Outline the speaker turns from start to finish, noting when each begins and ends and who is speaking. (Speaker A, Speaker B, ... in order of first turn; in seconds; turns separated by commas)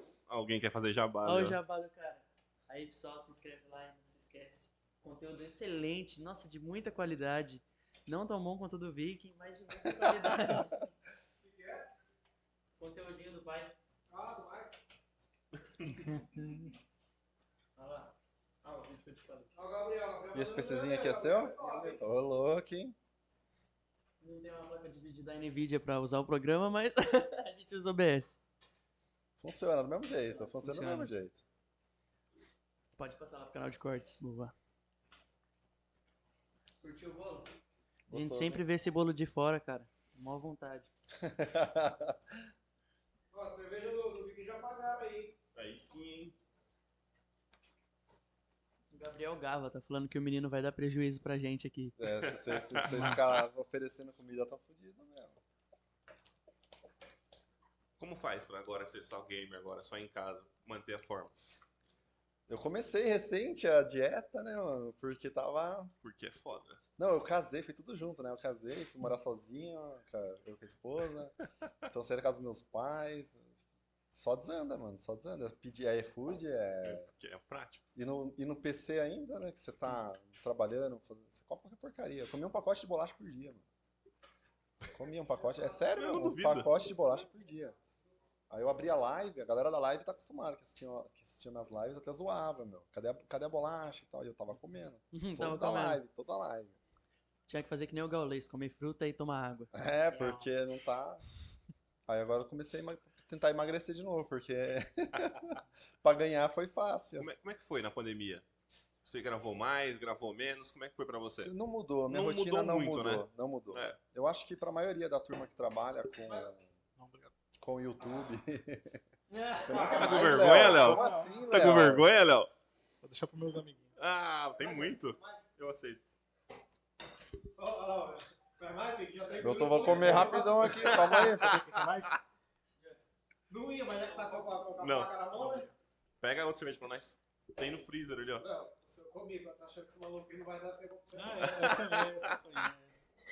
Speaker A: 0.3-1.6, Speaker B: 1.2-10.9, Speaker C: 9.9-10.3, Speaker D: 11.4-11.9, Speaker B: 12.8-13.7, Speaker D: 14.1-14.8, Speaker E: 16.1-16.7, Speaker B: 17.8-19.5, Speaker D: 19.6-22.0, Speaker C: 20.3-22.9, Speaker B: 24.2-28.4, Speaker C: 29.4-31.4, Speaker B: 30.2-31.1, Speaker B: 33.0-34.5, Speaker B: 36.8-37.5, Speaker C: 38.1-38.6, Speaker B: 38.1-40.9, Speaker C: 41.1-42.4, Speaker D: 43.3-45.4, Speaker A: 45.5-46.3, Speaker B: 48.9-51.9, Speaker C: 52.0-55.4, Speaker A: 52.2-53.4, Speaker A: 58.0-61.3, Speaker C: 62.5-65.9, Speaker A: 66.0-66.8, Speaker C: 67.0-73.4, Speaker C: 74.1-77.0, Speaker A: 76.8-77.8, Speaker C: 77.9-83.6, Speaker C: 84.9-87.8, Speaker A: 85.9-86.9, Speaker C: 88.5-96.7, Speaker B: 95.1-96.0, Speaker B: 97.5-99.7, Speaker C: 99.7-101.2, Speaker E: 100.1-100.7, Speaker C: 102.1-107.3, Speaker A: 107.2-108.4, Speaker A: 109.0-111.5, Speaker C: 111.4-116.7, Speaker A: 112.1-114.0, Speaker D: 116.3-116.5, Speaker E: 117.0-117.3, Speaker C: 117.6-119.0, Speaker B: 119.3-119.6, Speaker D: 119.5-121.5, Speaker C: 119.5-122.1, Speaker A: 119.9-122.5, Speaker E: 120.7-121.4, Speaker E: 123.0-124.1, Speaker A: 124.0-126.1, Speaker D: 124.5-125.5, Speaker D: 127.5-131.2, Speaker C: 129.4-131.6, Speaker E: 129.7-132.1, Speaker A: 130.8-132.1, Speaker D: 133.5-135.7, Speaker A: 134.8-135.1, Speaker E: 135.3-135.7, Speaker A: 136.2-138.4, Speaker D: 138.4-141.8, Speaker E: 141.1-143.1, Speaker A: 141.4-142.4